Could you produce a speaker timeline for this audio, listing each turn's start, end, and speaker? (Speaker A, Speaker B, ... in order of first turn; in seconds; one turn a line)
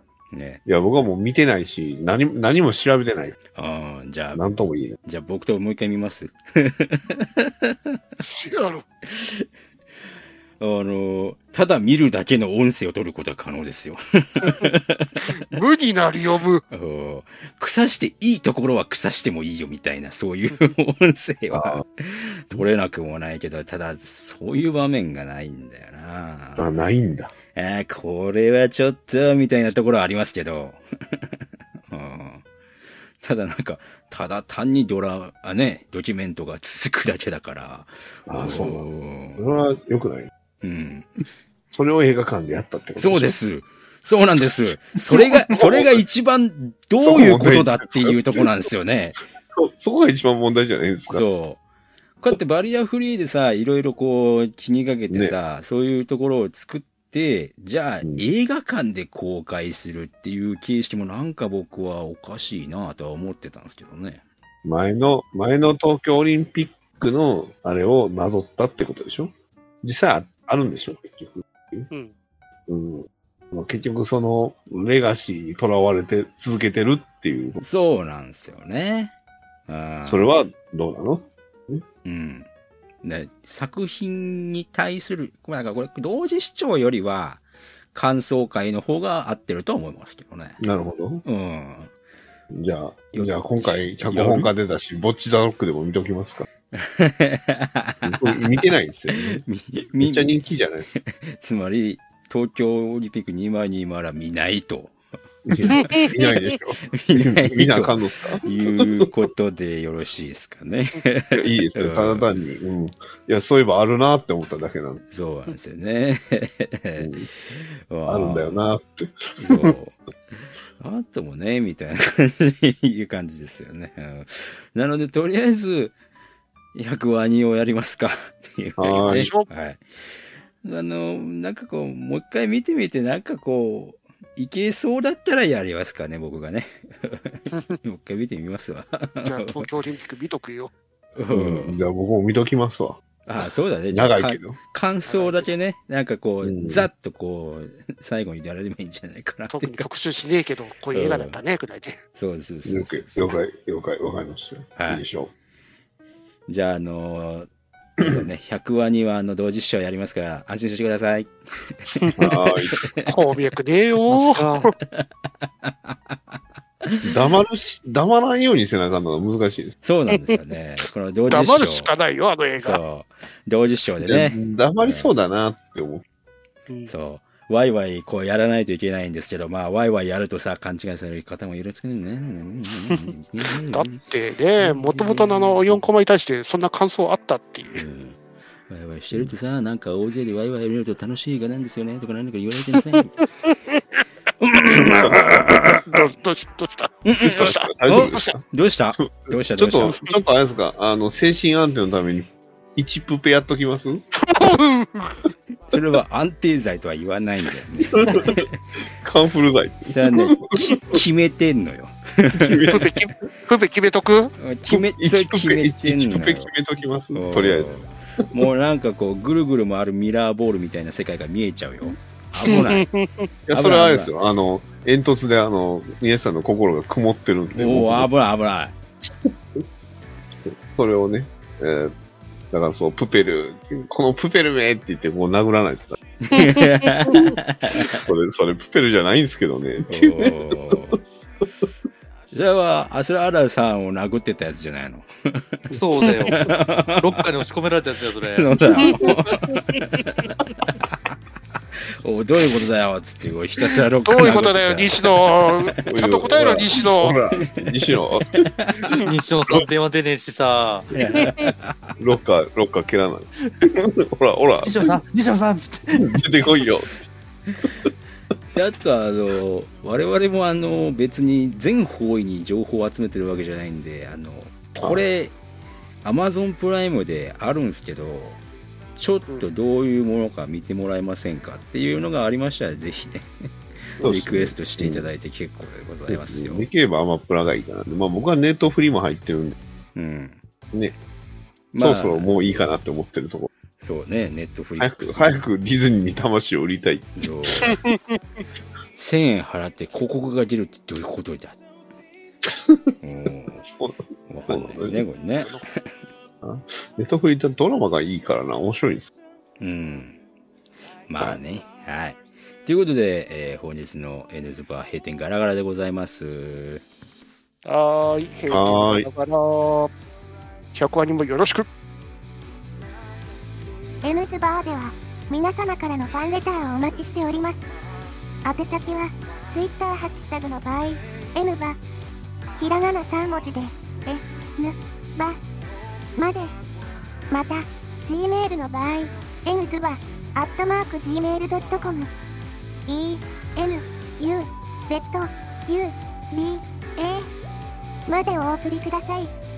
Speaker A: 0.3-0.6
Speaker B: 0.7-3.4
Speaker A: 3.5-4.5
Speaker B: 4.3-5.0
Speaker A: 5.0-8.0
Speaker C: 8.2-8.8
Speaker A: 9.1-9.4
Speaker A: 10.6-15.3
Speaker C: 14.4-14.7
Speaker C: 15.2-16.6
Speaker A: 16.7-26.7
Speaker B: 21.5-21.8
Speaker B: 26.6-27.3
Speaker A: 27.5-32.4
Speaker A: 33.2-39.4
Speaker B: 38.3-40.3
Speaker A: 40.6-41.1
Speaker B: 41.7-43.4
Speaker A: 43.0-49.2
Speaker D: 45.0-45.2
Speaker B: 45.5-46.0
Speaker B: 47.0-48.7
Speaker B: 49.5-51.2
Speaker A: 51.1-51.6
Speaker A: 52.2-64.2
Speaker B: 55.1-55.3
Speaker B: 64.6-71.9
Speaker B: 72.7-77.6
Speaker A: 77.6-79.1
Speaker A: 79.7-80.3
Speaker B: 80.0-81.8
Speaker A: 82.0-82.5
Speaker A: 83.0-90.6
Speaker B: 90.6-91.2
Speaker A: 91.2-91.9
Speaker B: 92.5-96.5
Speaker A: 93.1-94.5
Speaker A: 96.7-100.3
Speaker B: 98.0-99.4
Speaker B: 100.0-101.0
Speaker A: 100.9-105.0
Speaker B: 105.5-109.1
Speaker A: 105.6-106.1
Speaker C: 105.7-106.1
Speaker A: 106.9-112.3
Speaker B: 111.3-115.0
Speaker A: 115.1-118.6
Speaker B: 117.0-117.3
Speaker B: 118.1-119.8
Speaker A: 119.4-120.0
Speaker A: 120.8-125.9
Speaker A: 126.7-139.6
Speaker B: 128.8-129.3
Speaker C: 129.0-129.5
Speaker C: 139.2-140.7
Speaker A: 141.2-141.8
Speaker B: 141.3-144.6
Speaker A: 143.2-149.9
Speaker C: 145.1-145.5
Speaker B: 146.4-146.9
Speaker C: 149.5-152.0
Speaker A: 150.9-151.4
Speaker A: 152.2-153.4
Speaker B: 152.6-155.3
Speaker A: 154.8-155.0
Speaker A: 156.5-163.1
Speaker B: 162.2-162.9
Speaker C: 163.1-164.7
Speaker A: 164.1-166.2
Speaker A: 166.8-167.1
Speaker B: 167.0-169.7
Speaker A: 169.8-171.9
Speaker C: 171.3-172.8
Speaker A: 172.6-175.1
Speaker B: 174.0-176.0
Speaker A: 176.9-184.0
Speaker C: 183.7-187.8
Speaker A: 184.6-185.8
Speaker A: 187.7-193.2
Speaker C: 192.9-194.0
Speaker A: 194.4-195.8
Speaker B: 194.6-195.5
Speaker C: 195.9-198.3
Speaker A: 197.0-200.0
Speaker B: 197.2-198.4
Speaker B: 199.0-204.0
Speaker C: 204.1-205.3
Speaker A: 205.7-208.6
Speaker B: 207.8-208.4
Speaker B: 209.0-211.0
Speaker A: 209.8-212.9
Speaker B: 212.4-212.8
Speaker C: 212.4-214.3
Speaker A: 214.4-216.5
Speaker B: 214.7-217.8
Speaker A: 217.1-222.8
Speaker C: 222.4-223.3
Speaker B: 223.5-228.1
Speaker A: 223.5-224.1
Speaker A: 227.5-228.7
Speaker B: 229.2-229.6
Speaker B: 230.4-231.9
Speaker B: 232.5-236.0
Speaker A: 236.2-238.0
Speaker C: 236.3-237.3
Speaker B: 237.7-240.8
Speaker A: 239.9-241.0
Speaker A: 242.3-247.3
Speaker D: 245.7-248.5
Speaker A: 248.3-251.1
Speaker C: 249.5-249.8
Speaker A: 252.0-255.3
Speaker C: 254.0-257.2
Speaker B: 255.8-259.6
Speaker A: 257.4-258.9
Speaker D: 259.0-260.9
Speaker A: 260.9-261.9
Speaker B: 262.0-264.8
Speaker D: 264.6-266.2
Speaker B: 265.9-267.1
Speaker A: 268.5-275.3
Speaker B: 274.8-275.0
Speaker A: 276.0-278.4
Speaker A: 279.0-286.7
Speaker B: 284.0-285.1
Speaker B: 286.1-289.6
Speaker A: 289.9-290.4
Speaker A: 291.7-292.7
Speaker B: 291.7-293.5
Speaker A: 293.8-295.4
Speaker B: 294.8-297.6
Speaker A: 297.2-297.8
Speaker C: 297.7-298.2
Speaker A: 299.0-301.6
Speaker B: 302.4-303.0
Speaker A: 303.0-303.6
Speaker B: 303.6-305.0
Speaker A: 304.3-305.8
Speaker B: 306.4-309.1
Speaker A: 309.6-310.2
Speaker A: 311.1-316.8
Speaker C: 317.6-319.9
Speaker B: 318.5-319.1
Speaker C: 320.7-321.7
Speaker E: 324.0-327.7
Speaker E: 328.4-331.8
Speaker E: 332.6-335.4
Speaker E: 336.1-336.5
Speaker E: 337.3-342.1
Speaker E: 342.9-347.3
Speaker E: 348.1-349.3